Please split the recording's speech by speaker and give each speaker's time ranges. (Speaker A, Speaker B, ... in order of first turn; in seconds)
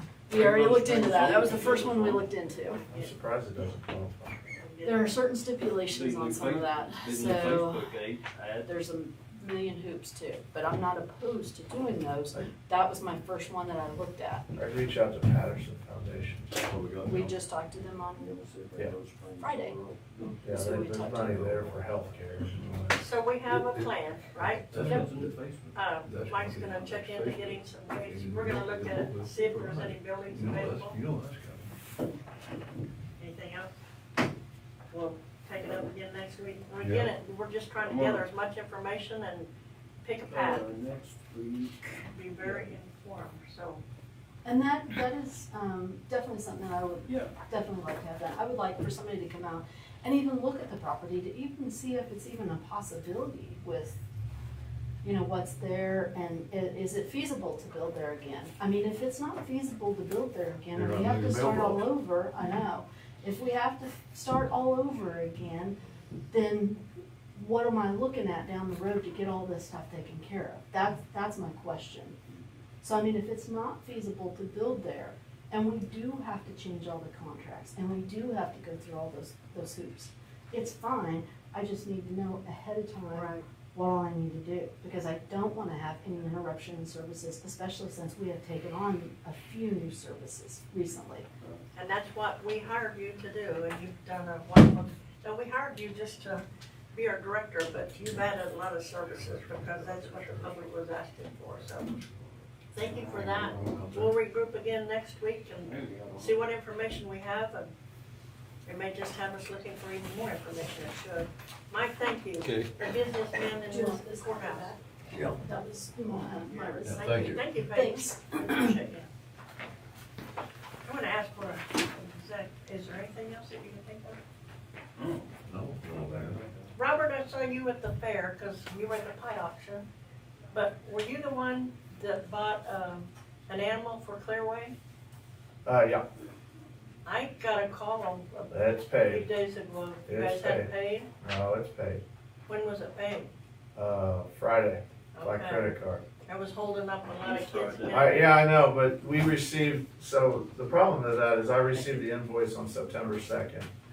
Speaker A: 0.3-2.3, 5.8-8.7, 18.1-20.5, 24.7-25.8, 37.8-38.3, 40.3-42.7, 47.0-47.3, 105.5-106.5, 125.0-125.3, 147.2-148.2
Speaker B: 0.3-2.8, 4.8-8.0, 8.6-14.4, 17.1-18.4, 19.4-19.8, 20.5-21.7, 44.4-54.0, 55.0-65.8, 66.3-66.8, 67.3-72.2, 72.8-91.3, 113.7-118.8
Speaker C: 2.7-3.1, 4.4-5.1, 23.0-24.6, 25.7-31.0, 33.2-33.7, 34.9-39.5, 40.0-40.6, 42.1-43.8, 91.7-101.9, 102.7-107.7, 108.6-113.8, 117.3-119.1, 120.8-124.2, 126.8-129.9, 130.5-134.7, 137.0-141.1, 142.5-143.3, 145.1-145.7, 146.2-148.3
Speaker D: 2.9-4.4, 14.5-16.6, 20.4-23.0, 99.1-100.7, 102.8-104.1, 135.6-136.1, 138.5-139.3, 140.1-142.0, 143.7-146.1, 147.9-153.7
Speaker E: 16.6-17.3, 22.5-22.9, 23.4-25.4, 26.0-31.7, 36.8-37.1, 60.7-61.8, 103.1-103.8, 112.4-112.7, 115.1-115.4, 116.8-117.6, 125.5-126.4